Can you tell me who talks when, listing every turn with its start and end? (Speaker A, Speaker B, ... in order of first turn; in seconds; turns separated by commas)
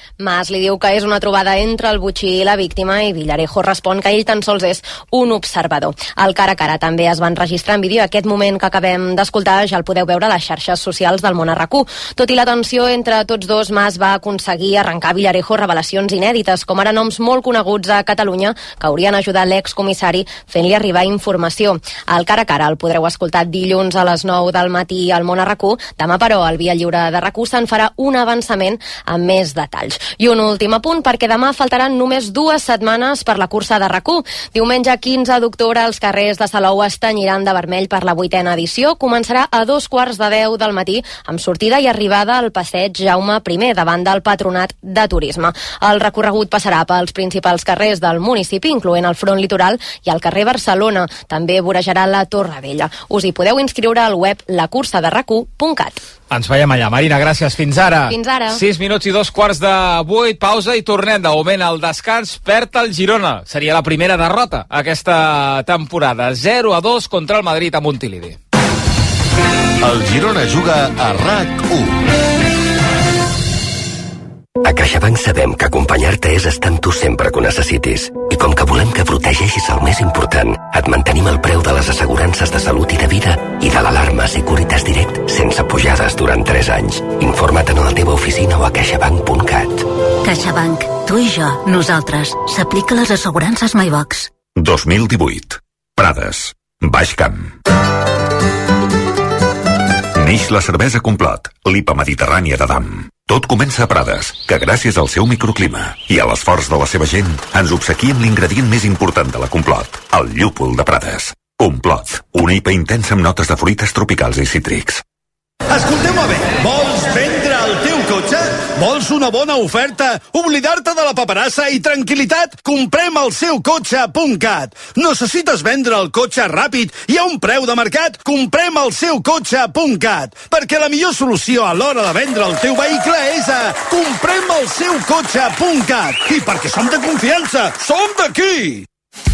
Speaker A: 0.2-56.0, Speaker B: 56.3-68.4, Speaker A: 58.1-58.6, Speaker C: 74.6-89.9, Speaker D: 90.2-94.3, Speaker E: 94.5-97.5, Speaker E: 100.2-115.0, Speaker F: 115.7-138.9